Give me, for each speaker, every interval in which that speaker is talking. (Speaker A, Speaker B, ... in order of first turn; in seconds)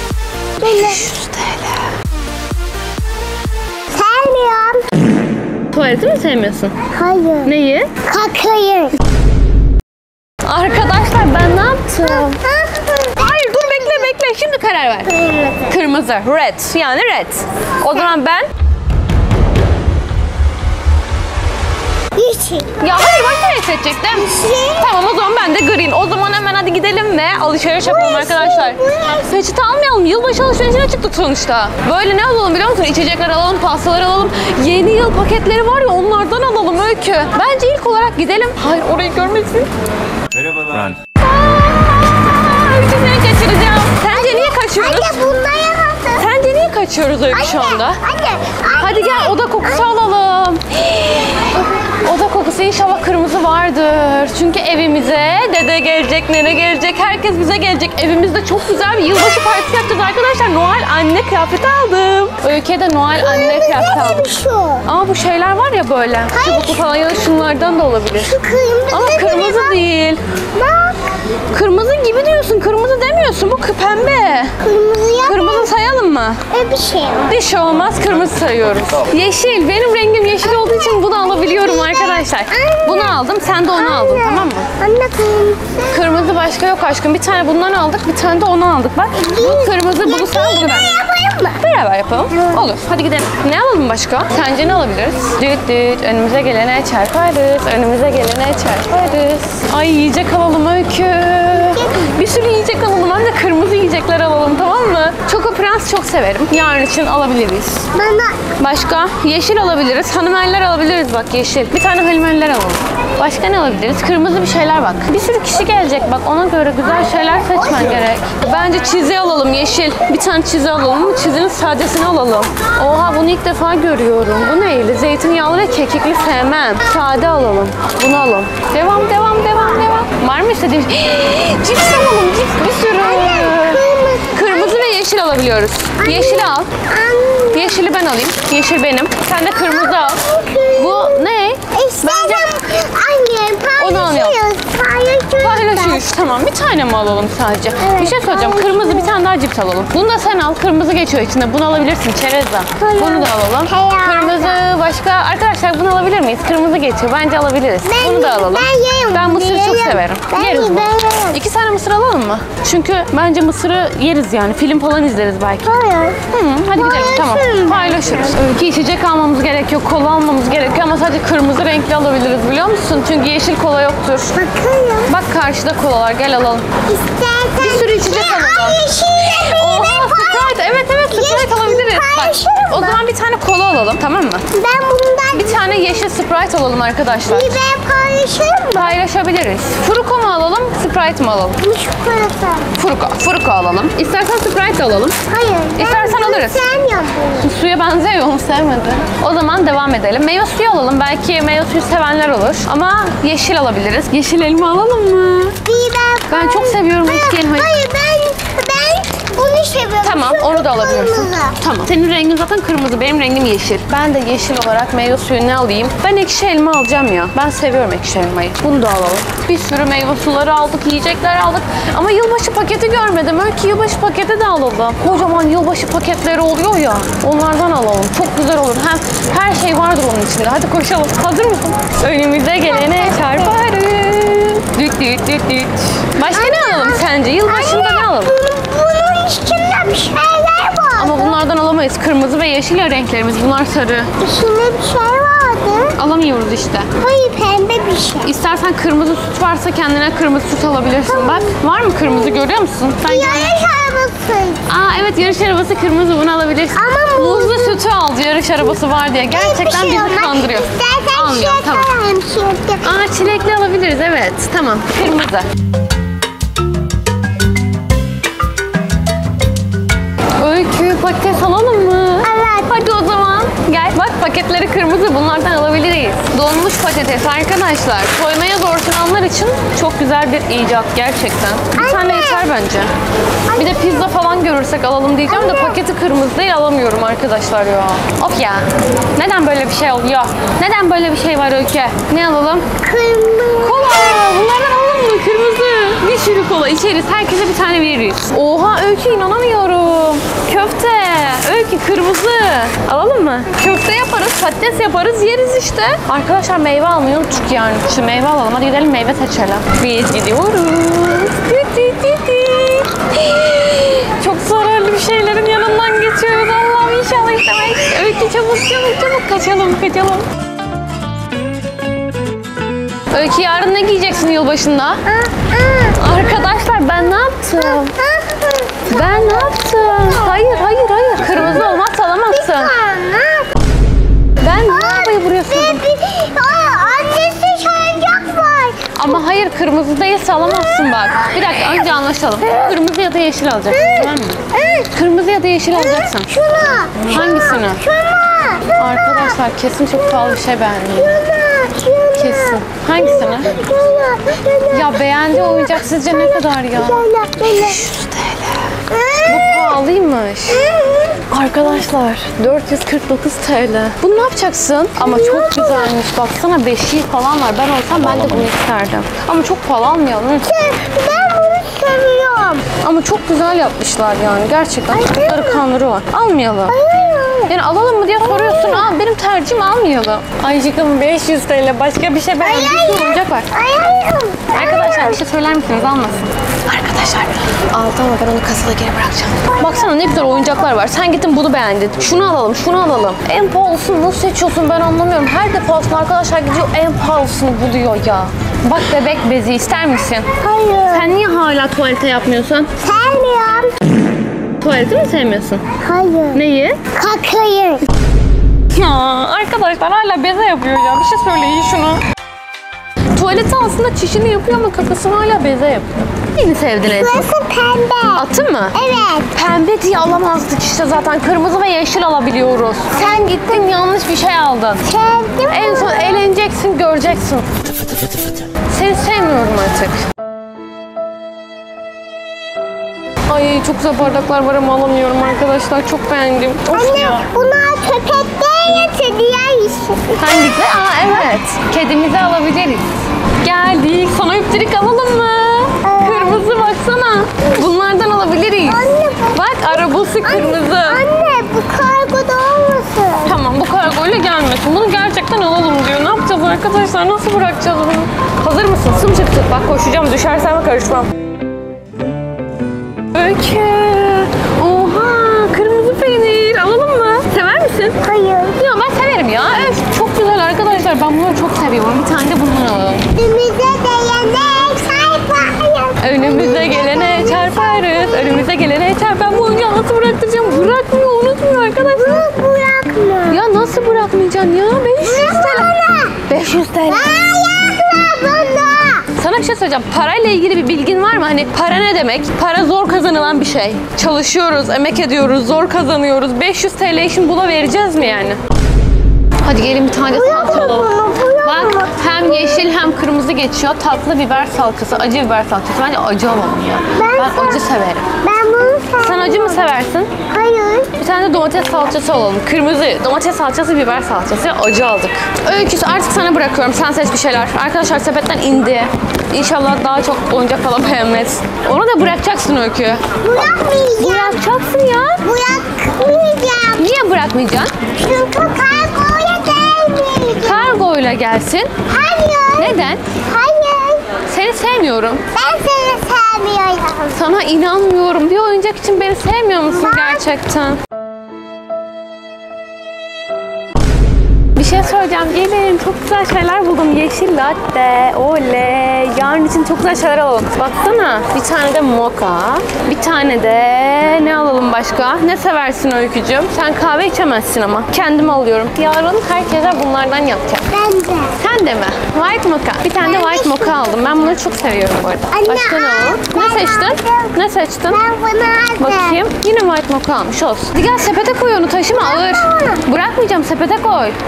Speaker A: 0.6-1.1, 3.9-4.8, 6.9-7.5, 8.0-9.0, 12.0-14.1, 15.0-15.8, 22.2-23.4, 24.1-24.9, 27.8-29.3, 44.1-46.3, 47.3-49.9, 63.1-64.9, 66.3-66.8, 68.1-69.8, 70.5-71.0, 74.6-75.7, 76.5-77.3, 80.4-86.1, 89.1-91.6, 92.3-92.7, 101.7-102.1, 107.9-108.4, 132.8-134.9, 136.0-137.9, 139.5-146.1, 147.8-149.1, 152.8-154.6, 157.8-161.4, 165.7-166.2, 166.8-168.2, 174.3-175.2, 176.9-183.0, 184.5-185.9, 187.3-189.0, 191.6-192.7, 195.3-197.5, 205.7-211.6, 232.6-233.6, 236.3-241.3, 244.2-245.9, 247.0-248.3, 251.1-251.6, 253.0-254.6, 256.7-257.8, 259.3-262.9, 272.2-272.8, 281.8-282.5, 283.5-284.1, 285.3-285.8, 292.8-294.3, 325.1-326.0, 327.7-330.5, 332.3-333.5, 334.7-339.2, 343.7-344.9, 345.7-349.4, 350.9-357.8, 358.9-359.8, 360.5-361.2, 365.0-365.9, 370.4-372.7, 374.9-375.7, 376.7-377.5, 378.2-378.9, 382.4-385.2, 400.4-401.1, 402.8-403.8, 405.8-406.4, 406.9-407.9, 416.9-419.3, 422.9-423.7, 424.8-426.2, 436.7-440.2, 445.8-446.5, 448.6-453.4, 468.0-468.6, 473.2-478.4, 482.0-483.4, 485.0-486.2, 486.9-489.1, 500.1-502.6, 507.0-507.7, 508.2-509.7, 510.3-510.9, 523.2-524.4, 525.2-526.9, 528.0-530.9, 531.9-534.2, 535.3-537.2, 539.7-540.3, 560.7-561.4, 563.0-563.8, 565.3-567.4, 567.9-569.2, 571.9-572.8
Speaker B: 0.6-1.9, 5.7-6.7, 7.4-7.9, 10.4-12.4, 13.2-15.1, 15.7-18.5, 22.8-39.7, 41.2-45.2, 46.2-48.0, 48.8-64.3, 64.8-68.3, 68.9-70.2, 71.5-74.5, 75.2-76.4, 77.3-84.7, 85.9-90.9, 91.6-107.9, 108.6-136.7, 137.5-140.2, 140.7-142.5, 143.8-144.4, 145.4-165.7, 166.3-174.3, 175.1-176.7, 177.6-184.4, 185.3-187.6, 188.8-191.6, 192.8-195.2, 195.8-196.6, 197.4-205.6, 206.3-207.7, 210.0-238.3, 240.9-244.1, 245.9-246.9, 248.2-253.6, 254.7-261.9, 262.8-265.5, 270.4-282.9, 283.6-292.7, 293.6-320.2, 323.1-325.0, 325.9-327.9, 328.9-332.7, 334.4-335.8, 338.9-344.4, 344.9-346.3, 347.0-347.8, 348.8-351.2, 352.1-353.6, 354.7-358.7, 359.3-360.7, 361.3-370.5, 372.8-376.8, 377.5-383.5, 384.5-400.3, 400.9-402.7, 404.6-405.6, 406.3-406.8, 408.7-412.0, 413.1-417.2, 418.1-418.8, 419.3-424.8, 425.5-427.5, 428.7-430.0, 433.3-437.2, 440.2-442.9, 443.4-451.0, 453.2-461.1, 463.1-468.0, 468.6-473.1, 476.0-482.2, 483.3-485.7, 486.3-487.2, 489.2-498.4, 499.4-500.9, 501.4-508.1, 509.0-510.1, 511.0-523.0, 524.0-525.2, 526.8-527.7, 530.4-531.7, 532.6-533.0, 534.2-535.2, 537.1-540.8, 544.5-560.6, 561.4-568.0, 568.8-574.1